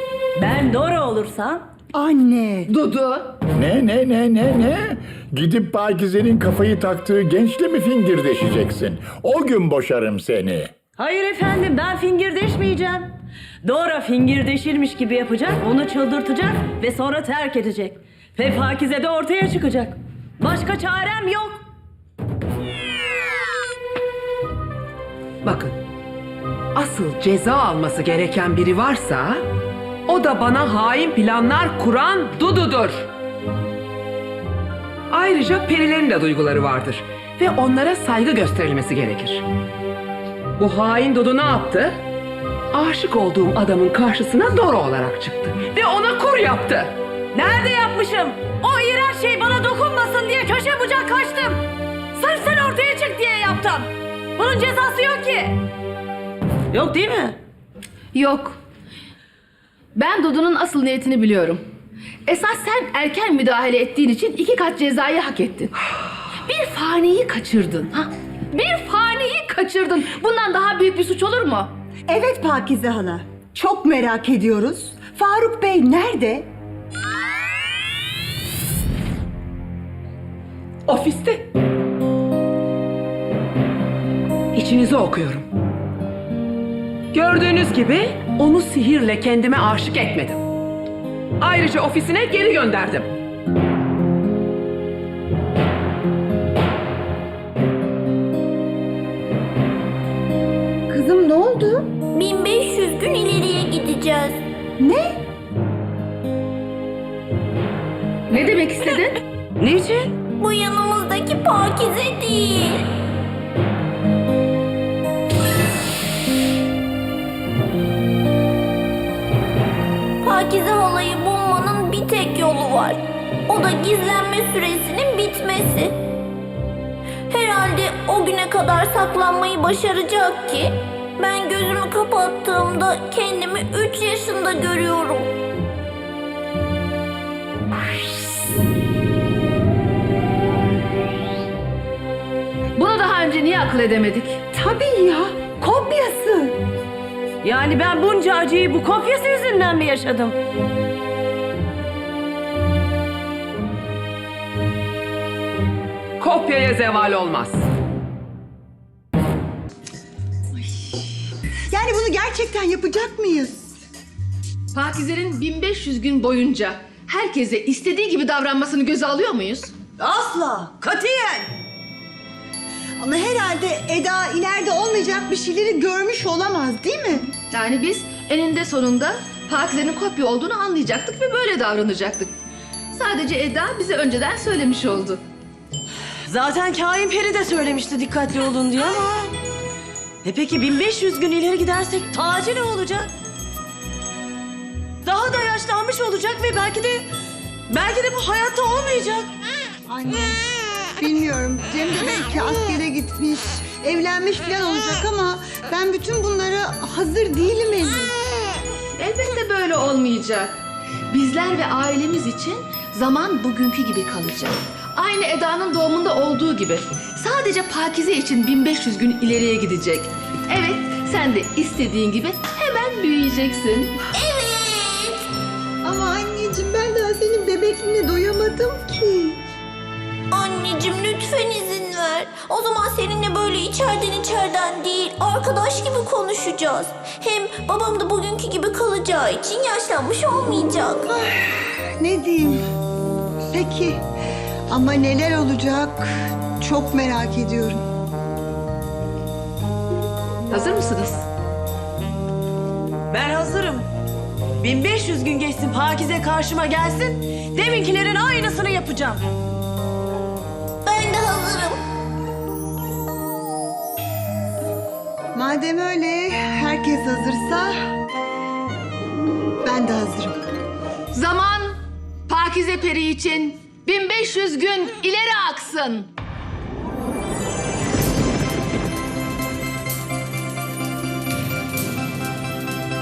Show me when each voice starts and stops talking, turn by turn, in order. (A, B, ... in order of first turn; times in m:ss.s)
0:00.4-0:01.6 A
0:01.9-0:02.7 B
0:02.7-0:03.3 C
0:03.5-0:10.7 D
0:11.0-0:13.1 A
0:13.6-0:21.6 A
0:25.4-0:25.8 E
0:26.7-0:29.5 E
0:30.0-0:33.1 E
0:35.1-0:39.4 E
0:40.6-0:42.0 E
0:42.7-0:47.0 E
0:47.3-0:55.6 A
0:56.7-0:57.4 A
0:58.1-0:58.6 C
0:59.9-1:01.6 C
1:02.3-1:05.7 C
1:06.4-1:11.7 C
1:12.1-1:16.5 B
1:20.9-1:21.5 E
1:24.5-1:25.5 E
1:27.1-1:30.4 E
1:31.4-1:33.1 E
1:40.9-1:41.9 B
1:42.1-1:44.4 F
1:44.8-1:45.2 B
1:48.3-1:49.2 C
1:49.6-1:50.2 A
1:50.4-1:52.9 F
2:00.2-2:05.9 F
2:07.3-2:15.3 F
2:22.8-2:24.4 C
2:24.5-2:26.6 B
2:27.4-2:30.4 A
2:36.2-2:37.6 E
2:40.5-2:43.7 B
2:44.7-2:49.7 C
2:50.0-2:51.5 A
2:53.0-2:57.3 B
2:57.5-3:02.3 C
3:02.9-3:05.2 C
3:06.3-3:09.3 A
3:10.2-3:13.1 A
3:15.0-3:17.1 A
3:17.7-3:19.3 A
3:19.9-3:20.4 B
3:21.0-3:28.1 B
3:29.0-3:30.5 C
3:31.1-3:43.9 C
3:44.1-3:45.2 F
3:45.8-3:49.4 B
3:50.3-4:01.1 F
4:01.1-4:02.6 B
4:03.5-4:04.0 B
4:04.7-4:07.8 B
4:10.5-4:11.2 C
4:13.1-4:13.9 A
4:14.6-4:19.2 A
4:20.8-4:21.8 F
4:25.3-4:27.7 B
4:29.6-4:30.4 B
4:31.1-4:31.8 C
4:32.3-4:36.1 C